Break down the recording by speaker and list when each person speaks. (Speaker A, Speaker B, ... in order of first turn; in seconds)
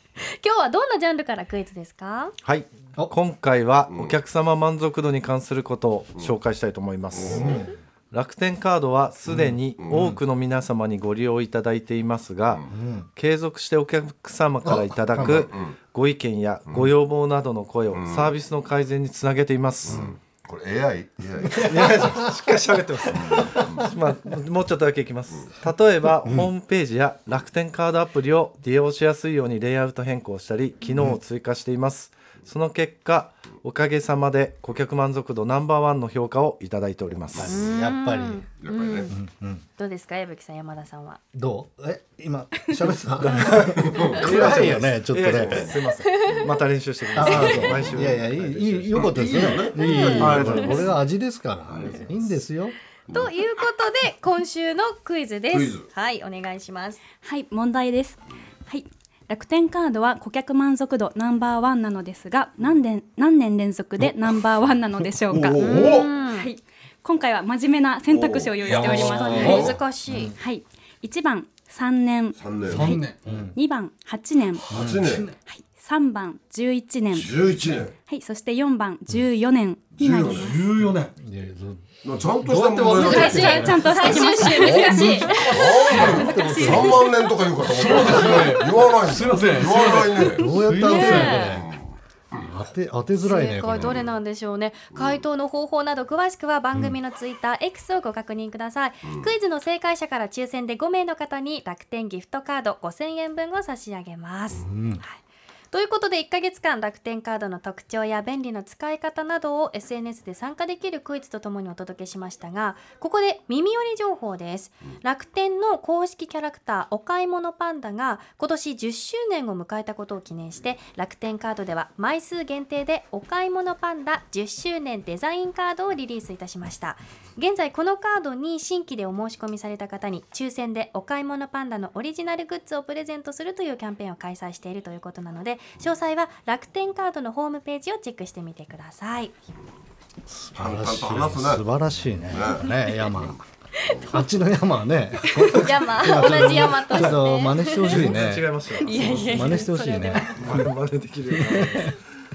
Speaker A: 0.2-2.3, 37.5-39.1, 39.8-41.2, 46.1-46.6, 47.3-47.6, 49.8-50.8, 53.1-57.0, 65.6-66.5, 69.0-70.3, 82.9-87.1, 90.8-91.6, 93.2-105.2, 105.7-139.4, 143.8-144.1, 145.5-148.1, 148.8-150.3
Speaker B: 2.4-7.6, 8.1-20.1, 21.7-23.2, 23.8-37.6, 43.2-48.1, 50.2-50.9, 51.7-52.1, 146.8-152.0
Speaker C: 7.1-7.7, 9.3-10.2, 14.7-15.8, 16.7-16.9, 17.9-18.3, 19.9-22.3, 23.1-23.9, 37.4-37.8, 38.6-39.1, 43.5-44.6, 45.4-45.7, 47.2-48.1, 49.0-50.9, 55.5-55.9, 65.3-66.1, 68.1-69.8, 72.4-73.0, 74.7-75.3, 77.1-77.9, 79.9-80.6, 82.0-84.1, 85.4-90.5, 91.3-92.5, 95.0-95.2, 99.0-99.3, 140.6-141.7, 142.3-143.3
Speaker D: 7.3-7.7, 12.7-13.1, 14.7-15.5, 21.6-22.4, 23.4-23.8, 37.5-38.5, 39.1-39.6, 41.3-45.7, 47.1-52.8, 68.7-70.3, 73.3-73.6, 80.9-87.1, 90.3-91.7, 92.4-94.0, 104.6-105.0, 140.3-143.4, 144.1-148.5, 149.3-150.6, 151.5-151.9
Speaker E: 48.0-49.5, 72.7-73.2, 74.7-75.3, 80.2-81.1, 87.6-91.5
Speaker F: 57.2-69.8, 70.3-77.4, 78.0-80.6, 83.0-85.4